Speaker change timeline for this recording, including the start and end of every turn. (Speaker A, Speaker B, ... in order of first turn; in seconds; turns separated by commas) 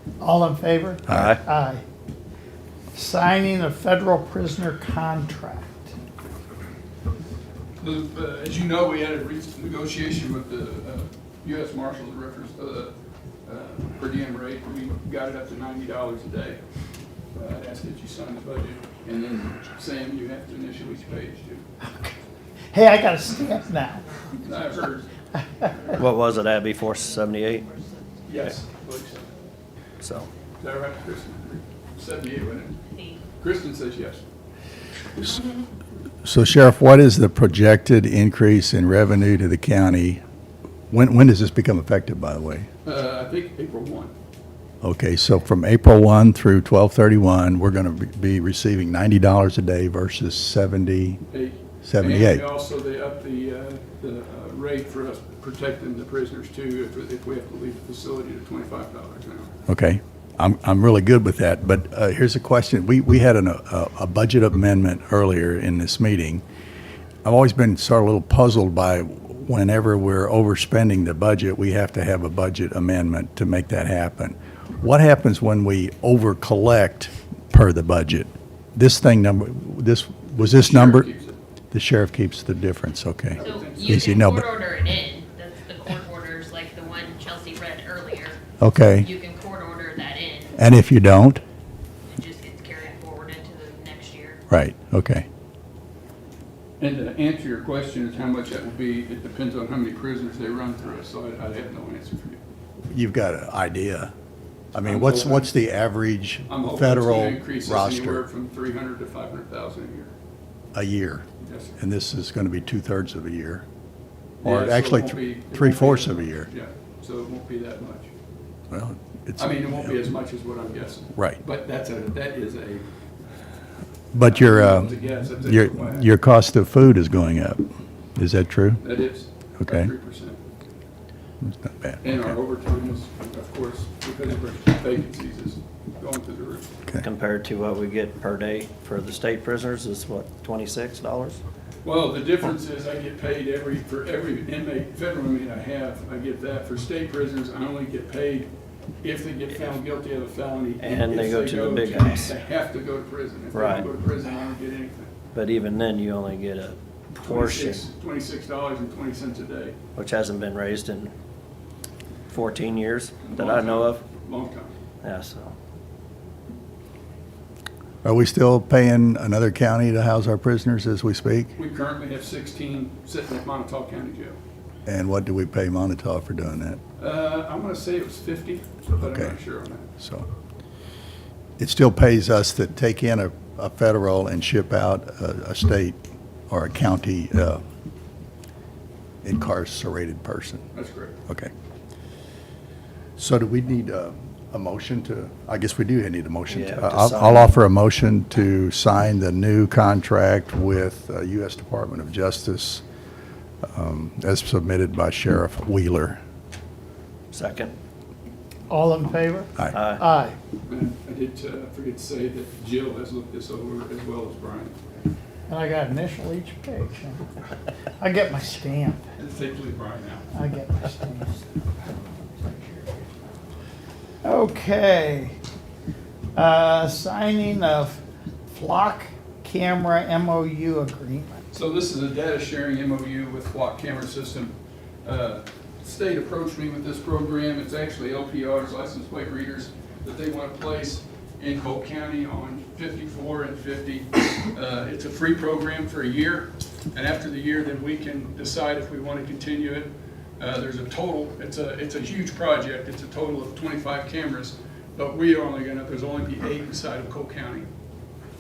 Speaker A: 0.2-1.8, Speaker B: 1.1-1.4, Speaker A: 2.9-5.9, Speaker C: 7.8-16.6, Speaker C: 17.4-21.6, Speaker A: 21.8-22.1, Speaker A: 22.7-24.0, Speaker C: 24.4-25.1, Speaker B: 25.9-27.7, Speaker D: 27.7-28.0, Speaker C: 28.3-29.3, Speaker B: 30.0-30.3, Speaker C: 30.6-32.8, Speaker D: 32.9-33.2, Speaker C: 33.4-34.2, Speaker E: 36.2-40.2, Speaker E: 40.9-42.7, Speaker C: 42.8-44.1, Speaker E: 44.8-51.2, Speaker C: 51.3-59.5, Speaker E: 51.8-52.4, Speaker E: 59.7-66.4, Speaker E: 67.2-81.1, Speaker C: 80.4-81.4, Speaker E: 81.7-84.5, Speaker C: 83.3-84.0, Speaker D: 83.4-88.4, Speaker E: 88.6-89.1, Speaker D: 88.9-90.5, Speaker E: 90.6-91.4, Speaker D: 92.1-94.4, Speaker E: 94.5-95.3, Speaker C: 96.8-102.4, Speaker E: 102.9-104.1, Speaker E: 104.7-108.2, Speaker C: 104.8-105.5, Speaker C: 106.5-110.1, Speaker E: 110.7-111.3, Speaker C: 111.4-111.8, Speaker E: 111.8-113.7, Speaker C: 114.4-118.1, Speaker E: 114.4-116.5, Speaker E: 118.7-120.0, Speaker C: 119.4-122.8, Speaker E: 124.1-128.8, Speaker C: 124.2-126.1, Speaker C: 128.8-130.4, Speaker E: 129.6-129.9, Speaker E: 131.4-132.3, Speaker C: 132.0-136.7, Speaker B: 137.0-141.4, Speaker C: 141.8-148.5, Speaker C: 149.0-155.1, Speaker B: 150.8-152.3, Speaker B: 153.5-153.9, Speaker B: 155.3-157.9, Speaker C: 157.2-159.8, Speaker B: 159.9-161.1, Speaker B: 162.3-164.0, Speaker C: 163.2-164.7, Speaker B: 165.0-165.5, Speaker E: 168.0-171.5, Speaker C: 171.6-174.4, Speaker E: 174.9-176.8, Speaker C: 177.0-179.9, Speaker E: 179.0-179.4, Speaker E: 180.0-180.3, Speaker E: 181.6-186.0, Speaker E: 186.5-187.6, Speaker E: 189.2-190.6, Speaker C: 190.7-191.2, Speaker E: 193.2-202.8, Speaker B: 196.5-197.6, Speaker E: 203.7-206.2, Speaker B: 207.3-207.7, Speaker A: 208.7-210.4, Speaker B: 209.7-210.0, Speaker C: 210.7-214.8, Speaker A: 215.5-217.2, Speaker A: 218.0-219.0, Speaker C: 219.2-220.3, Speaker A: 220.3-221.3, Speaker A: 224.2-225.3, Speaker A: 226.4-228.0, Speaker A: 228.5-231.4, Speaker C: 231.5-257.7